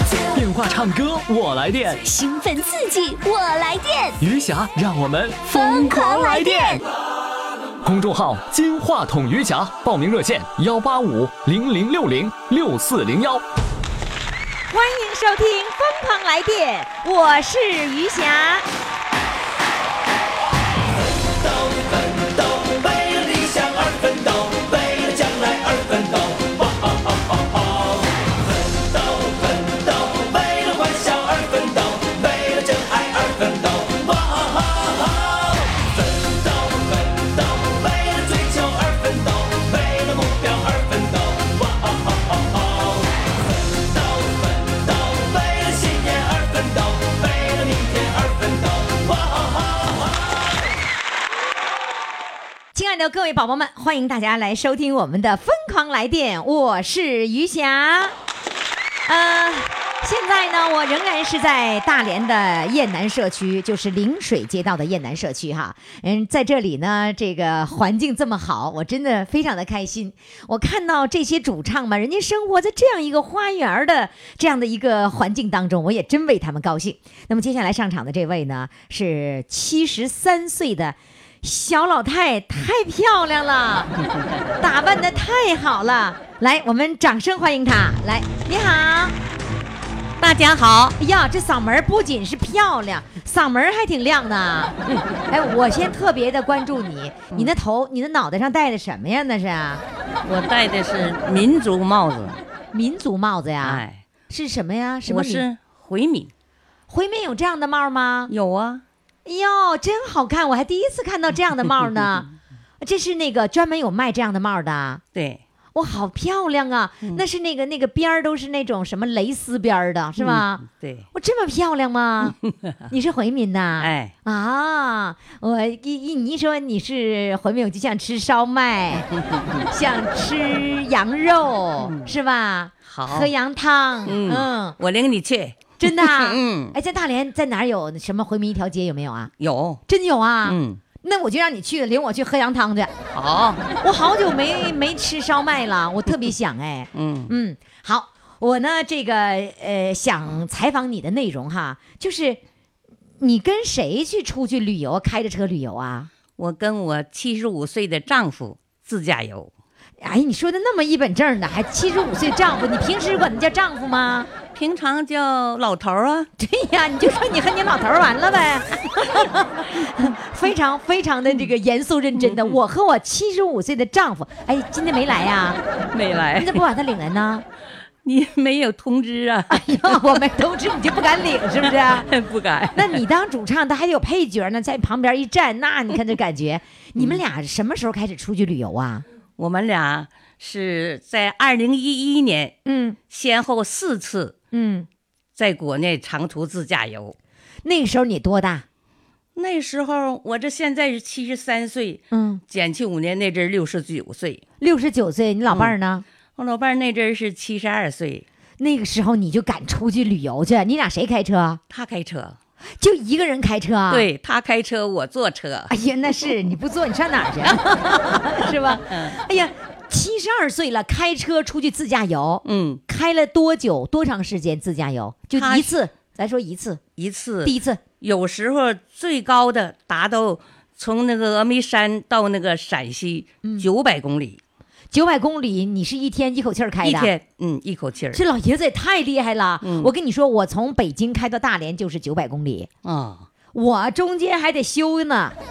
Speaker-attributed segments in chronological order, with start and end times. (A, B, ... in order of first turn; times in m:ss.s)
0:00.3-0:02.0 A
0:02.0-0:04.2 B
0:04.2-0:06.8 A
0:05.5-0:06.8 B
0:07.8-0:13.4 A
0:14.7-0:18.6 C
0:21.2-0:43.1 D
0:43.6-0:50.3 D
0:52.7-0:58.1 C
0:59.1-1:23.9 C
1:24.6-1:29.2 C
1:30.2-1:31.0 E
1:31.0-1:34.8 C
1:34.8-1:35.2 E
1:35.3-1:39.8 C
1:40.2-1:42.4 E
1:42.7-1:45.4 C
1:43.6-1:44.0 E
1:45.0-1:46.3 E
1:46.9-1:48.3 C
1:48.3-1:48.8 E
1:49.2-1:52.3 C
1:52.8-1:55.0 C
1:55.1-1:55.4 E
1:55.7-2:02.4 C
2:00.2-2:01.1 E
2:02.2-2:02.7 E
2:02.9-2:09.1 C
2:03.8-2:04.1 E
2:08.9-2:09.7 E
2:09.7-2:14.8 C
2:11.8-2:12.1 E
2:12.8-2:13.3 E
2:14.0-2:16.8 E
2:15.8-2:19.3 C
2:19.4-2:19.8 E
2:19.9-2:22.9 C
2:20.4-2:20.8 E
2:23.1-2:23.6 E
2:23.8-2:32.4 C
2:26.9-2:27.3 E
2:33.2-2:36.1 C
2:36.4-2:39.5 E
2:40.0-2:44.3 C
2:44.5-2:46.3 E
2:46.4-2:55.6 C
2:52.2-2:52.6 E
2:55.9-2:56.6 E
2:56.4-2:57.4 C
2:58.0-3:00.3 E
2:59.5-3:02.1 C
3:01.6-3:03.0 E
3:02.7-3:09.0 C
3:09.4-3:12.6 E
3:12.6-3:13.0 C
3:13.1-3:14.3 E
3:14.5-3:14.9 C
3:15.4-3:17.2 E
3:17.6-3:18.6 C
3:19.3-3:24.4 E
3:22.1-3:22.4 C
3:24.6-3:26.0 C
3:26.4-3:28.2 E
3:28.6-3:31.6 C
3:31.7-3:32.4 E
3:32.8-3:34.1 C
3:33.9-3:35.7 E
3:35.7-3:46.8 C
3:38.0-3:39.2 E
3:42.4-3:42.8 E
3:45.3-3:45.7 E
3:47.0-3:54.4 E
3:47.4-3:47.8 C
3:54.9-3:57.1 C
3:56.8-3:58.2 E
3:58.1-4:02.7 C
3:59.6-3:59.9 E
4:02.8-4:03.3 E
4:03.5-4:05.4 C